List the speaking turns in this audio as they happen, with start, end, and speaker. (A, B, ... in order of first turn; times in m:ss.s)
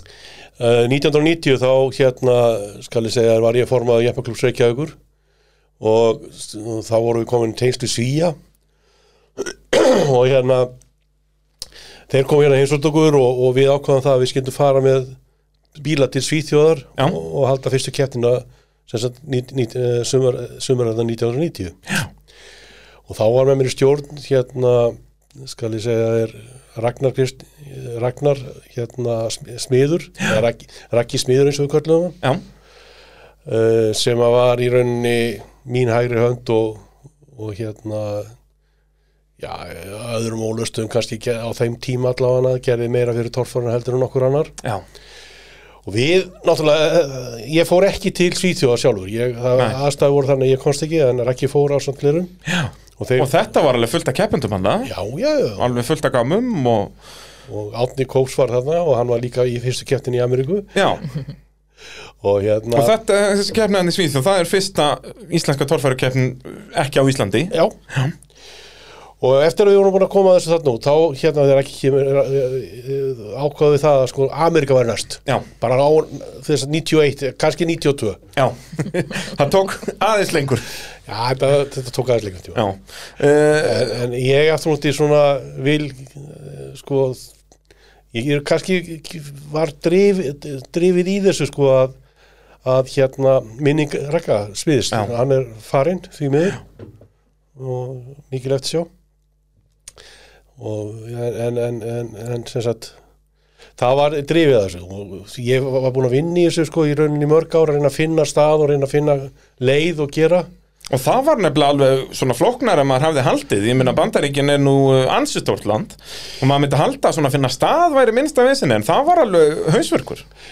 0:00.6-0:05.0 A
0:05.8-0:08.4 A
0:09.4-0:10.7 A
0:12.1-0:15.2 A
0:15.8-0:21.8 A
0:23.1-0:32.2 A
0:33.5-0:38.4 A
0:39.4-0:44.5 A
0:45.8-0:52.3 A
0:52.5-0:54.9 B
0:53.0-0:53.3 A
0:54.8-0:55.7 A
0:55.6-0:56.9 B
0:57.5-1:00.7 A
1:00.8-1:01.0 B
1:02.2-1:03.0 A
1:02.7-1:08.1 B
1:07.5-1:07.8 A
1:09.2-1:18.2 A
1:18.4-1:20.7 B
1:21.1-1:22.6 A
1:22.6-1:23.9 B
1:23.6-1:27.3 A
1:28.1-1:32.0 A
1:32.6-1:36.6 A
1:37.6-1:38.9 A
1:40.6-1:43.0 A
1:43.8-1:50.5 A
1:50.9-2:00.2 B